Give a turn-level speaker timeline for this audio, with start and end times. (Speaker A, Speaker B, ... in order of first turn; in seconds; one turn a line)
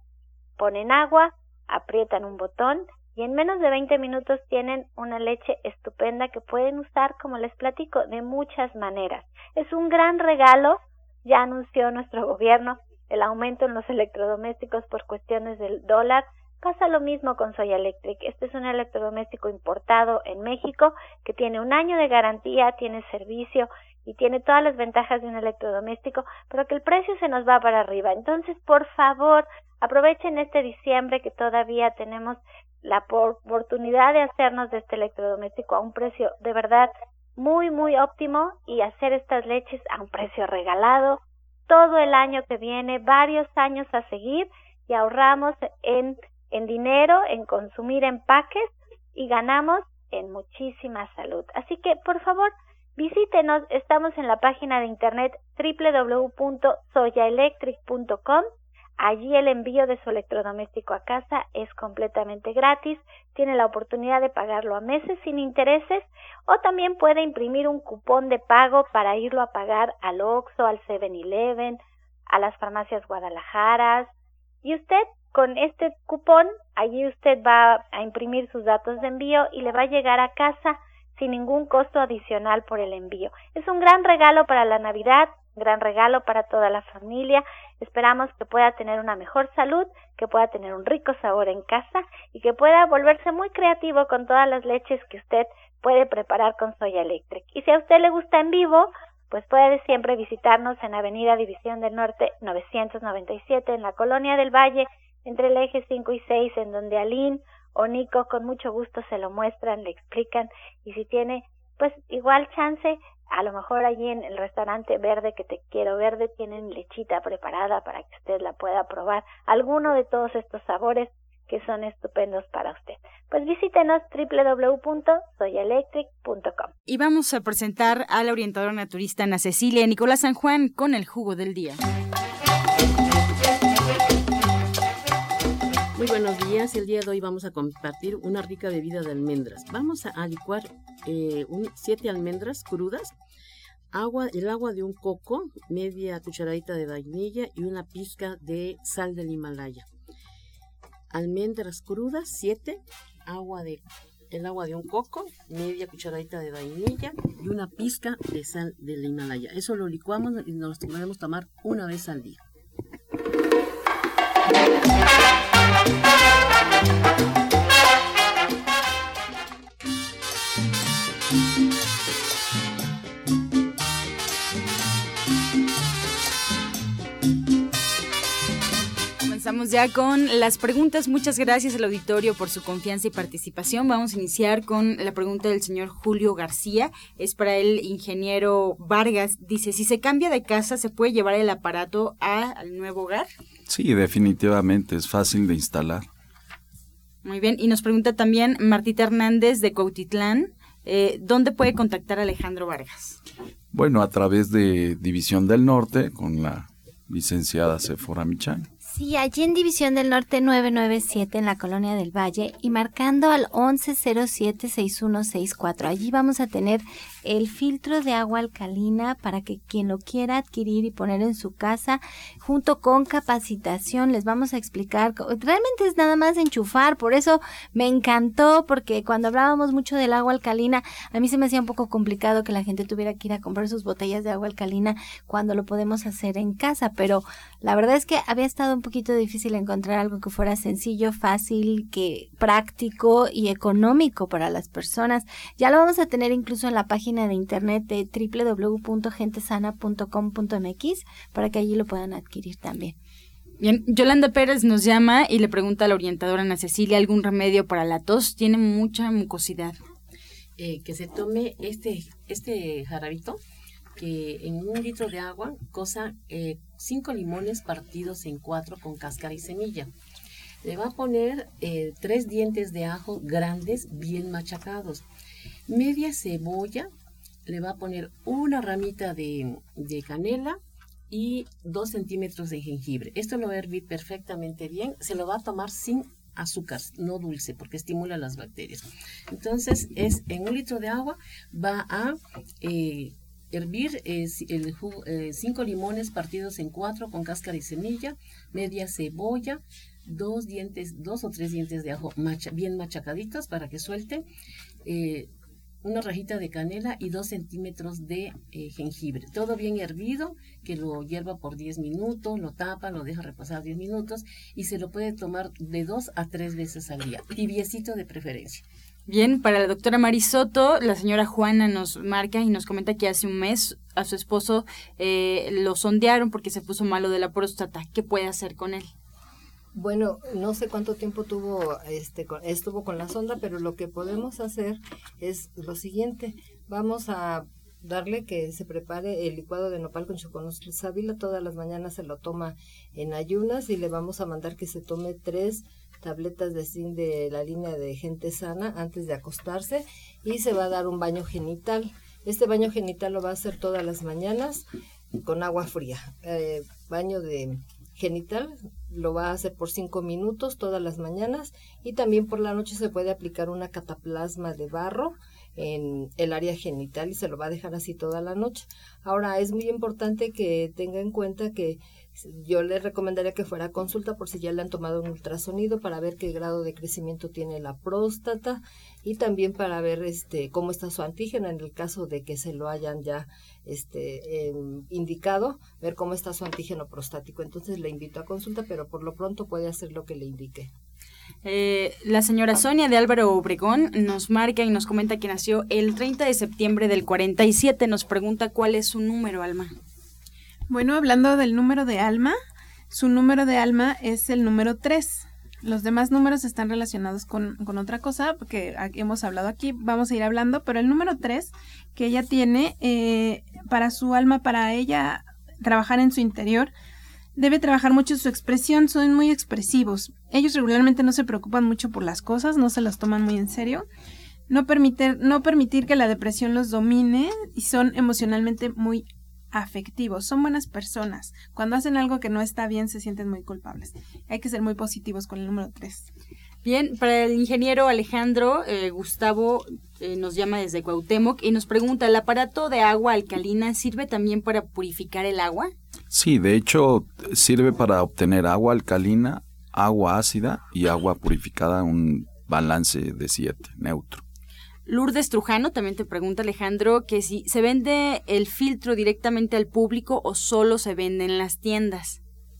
Speaker A: 0.6-58.5
Speaker A: 59.0-74.1
Speaker A: 74.6-126.7
Speaker B: 126.9-131.8
Speaker C: 136.0-143.1
Speaker C: 143.9-149.8
Speaker C: 151.1-162.4
Speaker B: 179.2-193.3
Speaker D: 193.7-196.1
Speaker B: 197.2-203.2
Speaker D: 203.7-208.7
Speaker E: 208.8-252.9
Speaker B: 253.6-259.8
Speaker C: 260.6-263.4
Speaker C: 264.0-269.9
Speaker C: 270.6-275.0
Speaker C: 275.7-276.9
Speaker C: 277.5-280.6
Speaker C: 281.1-304.2
Speaker C: 304.8-305.3
Speaker C: 305.8-318.6
Speaker B: 319.1-328.9
Speaker F: 329.7-354.6
Speaker F: 355.2-390.7
Speaker B: 391.4-399.7
Speaker G: 400.7-402.4
Speaker G: 402.9-416.7
Speaker G: 417.4-423.9
Speaker G: 424.5-436.1
Speaker B: 436.6-445.7
Speaker D: 446.1-454.2
Speaker B: 454.9-462.2